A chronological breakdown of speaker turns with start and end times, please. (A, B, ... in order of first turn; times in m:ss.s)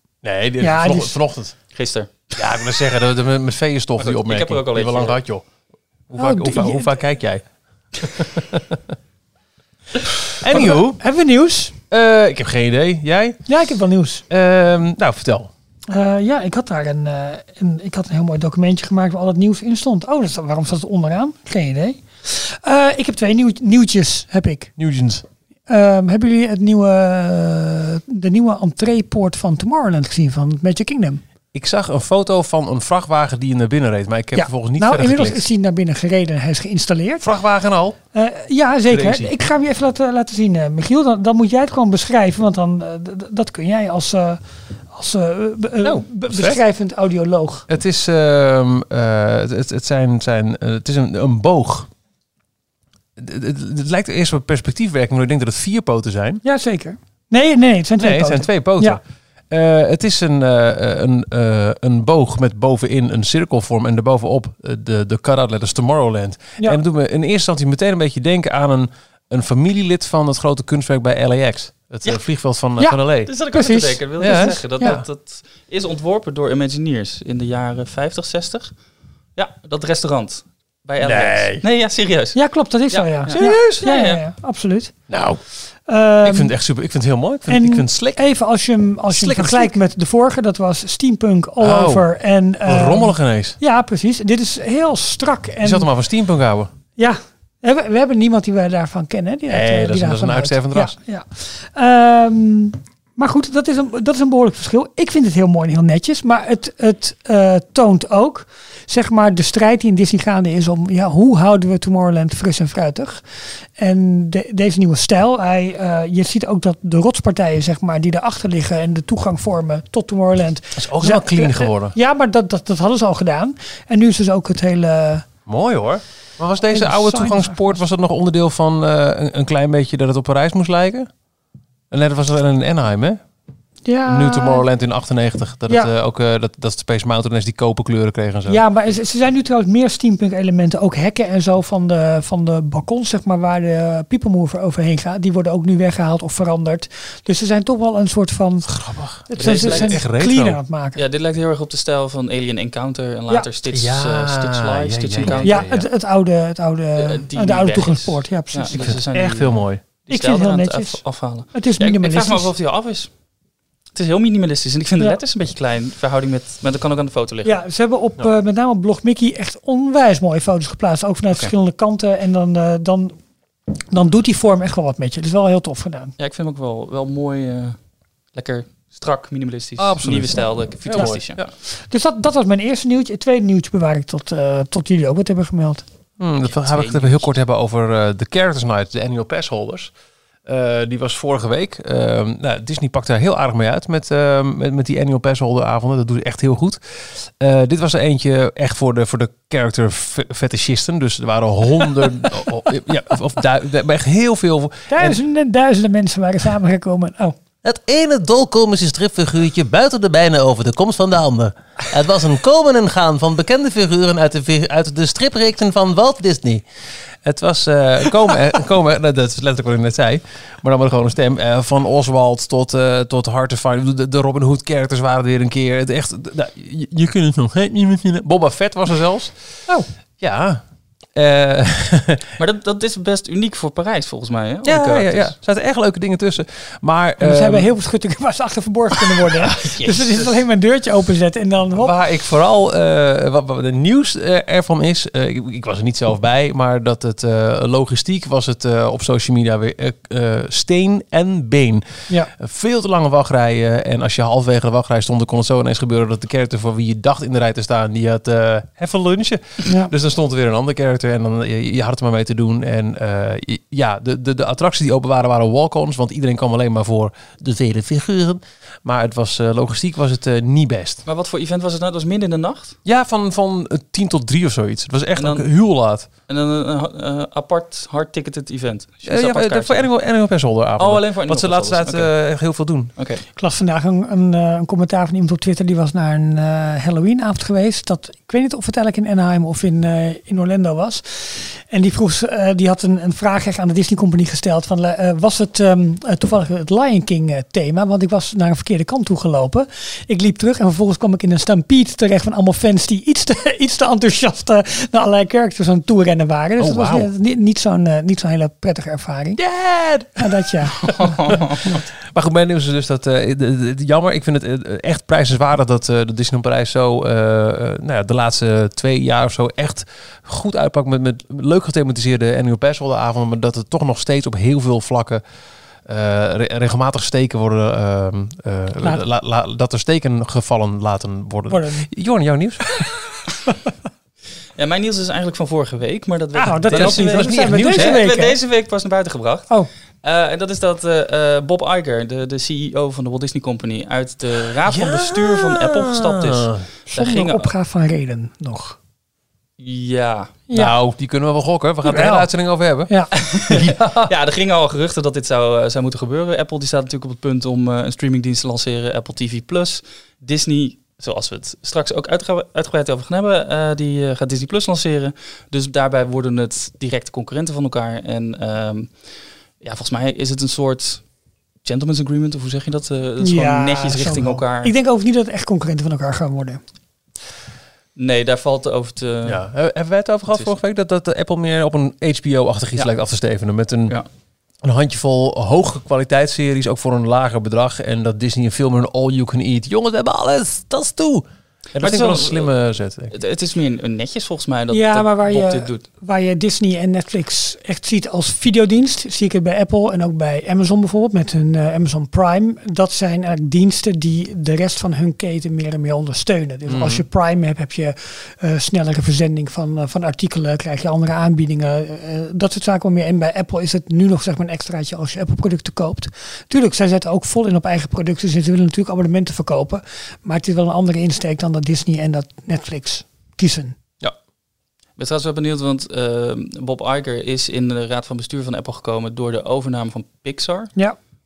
0:00.2-0:01.6 A
0:00.6-0:01.2 B
0:01.7-0:02.4 C
0:02.4-0:05.5 A
0:04.0-0:05.2 C
0:06.1-0:07.4 A
0:06.2-0:06.9 B
0:08.0-0:08.8 A
0:10.4-0:11.0 A
0:10.5-0:11.8 B
0:11.9-0:13.4 A
0:13.5-0:14.2 B
0:14.3-0:15.5 A
0:15.9-0:24.7 B
0:24.8-0:25.2 A
0:25.7-0:31.2 B
0:31.5-0:35.4 A
0:34.4-0:37.3 B
0:37.2-0:38.0 A
0:38.1-0:44.4 B
0:38.9-0:39.3 A
0:44.9-0:47.7 B
0:45.8-0:46.6 A
0:47.7-0:51.9 A
0:53.2-0:56.4 A
0:56.4-0:59.0 B
0:58.0-1:13.3 A
1:13.2-1:18.7 C
1:13.5-1:15.0 B
1:14.2-1:15.0 A
1:19.4-1:22.4 C
1:21.0-1:21.6 A
1:22.4-1:24.9 B
1:22.9-1:24.2 C
1:23.3-1:23.8 A
1:25.1-1:25.4 A
1:25.9-1:26.5 B
1:26.2-1:28.2 A
1:27.5-1:35.9 B
1:29.1-1:29.8 A
1:31.6-1:32.1 A
1:32.6-1:33.6 A
1:35.6-1:36.7 A
1:37.0-1:53.2 B
1:39.5-1:41.0 A
1:53.8-2:05.3 B
2:00.8-2:02.0 A
2:05.4-2:11.1 A
2:06.7-2:07.8 B
2:11.9-2:13.2 A
2:13.8-2:14.6 B
2:14.0-2:18.6 A
2:18.5-2:28.7 B
2:28.6-2:30.6 A
2:29.3-2:31.0 B
2:29.4-2:30.0 C
2:30.9-2:35.6 C
2:33.7-2:35.9 A
2:35.4-2:38.8 B
2:37.0-2:43.1 C
2:38.8-2:39.8 A
2:40.1-2:42.5 B
2:43.9-2:47.6 C
2:47.4-2:53.2 B
2:53.9-2:56.1 B
2:56.2-2:57.8 C
2:58.3-3:01.5 C
2:59.8-3:01.5 A
3:01.7-3:05.8 B
3:06.2-3:09.9 A
3:06.5-3:07.3 C
3:10.4-3:25.2 A
3:24.9-3:27.4 B
3:27.6-3:36.7 A
3:37.2-3:49.5 A
3:50.2-3:50.6 A
3:51.1-3:52.3 A
3:52.4-3:55.4 C
3:54.6-3:57.7 A
3:57.2-4:01.9 B
3:59.1-4:00.2 A
4:01.7-4:31.0 A
4:19.7-4:19.9 B
4:31.1-4:32.8 C
4:32.8-4:36.1 A
4:35.2-4:35.5 C
4:36.3-4:39.9 C
4:39.0-4:42.9 A
4:40.8-4:42.1 C
4:43.0-4:43.2 C
4:43.4-5:09.4 B
5:06.6-5:07.1 A
5:09.4-5:25.2 A
5:10.2-5:11.1 B
5:10.8-5:11.8 C
5:25.8-5:32.9 A
5:31.5-5:31.9 B
5:34.6-5:47.5 C
5:36.3-5:38.4 B
5:36.6-5:38.0 A
5:44.7-5:46.7 A
5:46.9-5:48.8 B
5:49.6-5:50.4 C
5:50.5-5:54.1 A
5:51.8-5:52.3 B
5:53.2-6:08.9 C
6:09.6-6:11.0 C
6:11.6-6:14.7 C
6:13.2-6:16.6 B
6:18.0-6:19.4 C
6:19.2-6:24.0 A
6:24.6-6:33.1 A
6:31.8-6:32.5 C
6:33.1-6:35.8 C
6:34.7-7:03.8 B
6:46.7-6:47.0 A
7:05.0-7:10.8 C